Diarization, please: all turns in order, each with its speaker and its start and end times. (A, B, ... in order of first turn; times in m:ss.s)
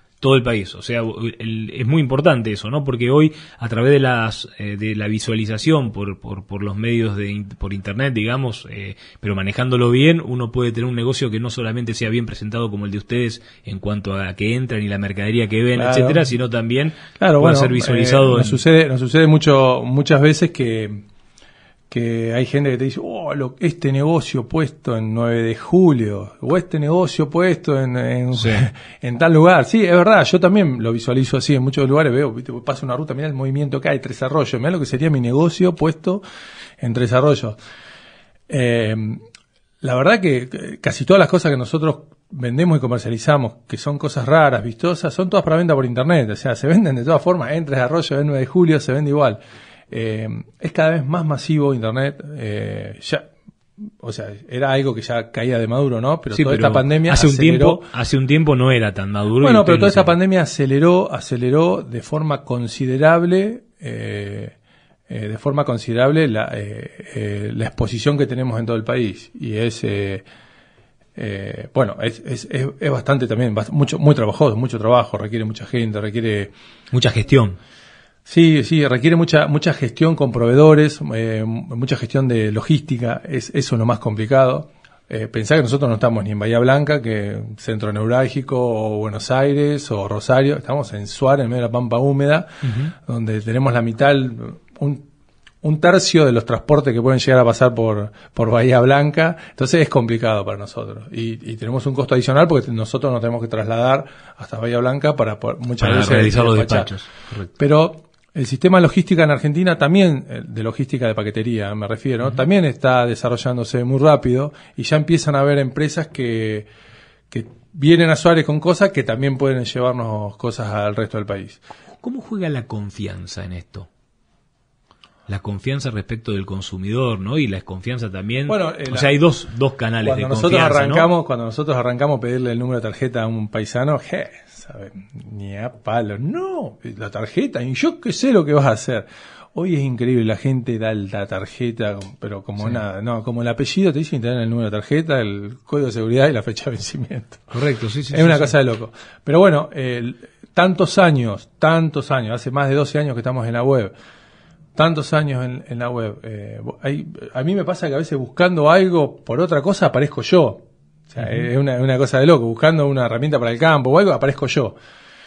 0:00.2-0:18.6 A
0:15.8-0:16.2 B
0:17.2-0:21.0 B
0:21.9-0:36.2 B
0:28.3-0:28.6 A
0:36.8-0:37.6 B
0:38.5-0:39.2 B
0:39.8-0:53.3 B
0:53.8-0:57.9 B
0:56.3-1:00.1 A
0:59.4-1:04.6 B
1:05.1-1:10.2 B
1:11.2-1:16.5 B
1:16.9-1:17.6 A
1:18.3-1:35.0 B
1:32.6-1:32.9 A
1:35.6-1:46.9 B
1:45.8-1:47.5 A
1:47.6-1:56.7 B
1:57.3-2:01.6 B
2:02.0-2:03.9 A
2:05.3-2:11.1 A
2:08.5-2:09.1 B
2:10.0-2:27.5 B
2:27.5-2:28.5 A
2:28.1-2:33.9 B
2:34.8-2:44.8 B
2:41.2-2:41.5 A